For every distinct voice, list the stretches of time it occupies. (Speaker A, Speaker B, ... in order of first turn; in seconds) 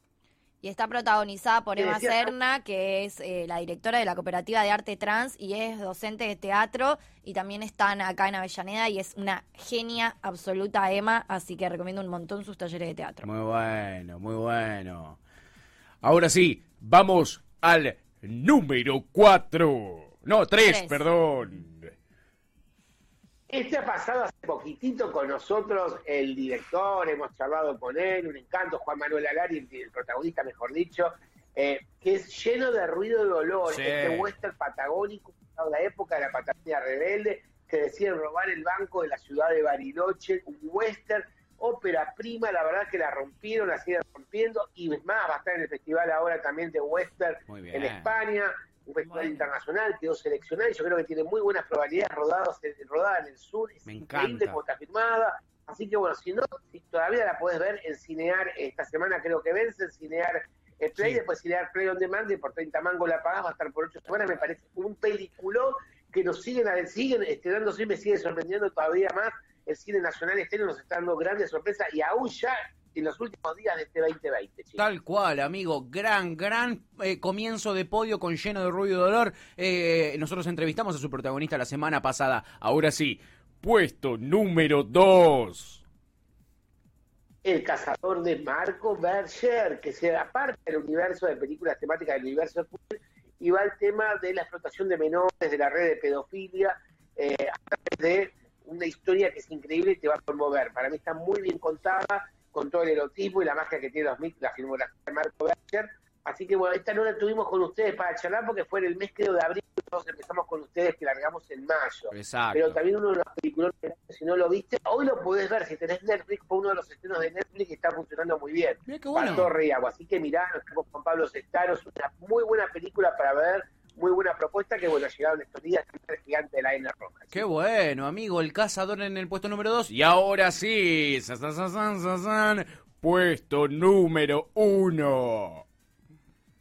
Speaker A: 0.6-13.3, 20.6-21.0
Speaker B: 1.8-2.3, 23.5-74.8, 87.4-127.4
Speaker C: 13.2-15.2, 16.0-21.9, 33.6-34.3, 47.5-48.1, 53.9-54.6, 61.0-61.2, 74.8-85.8, 112.1-112.8, 118.9-119.5, 127.3-135.6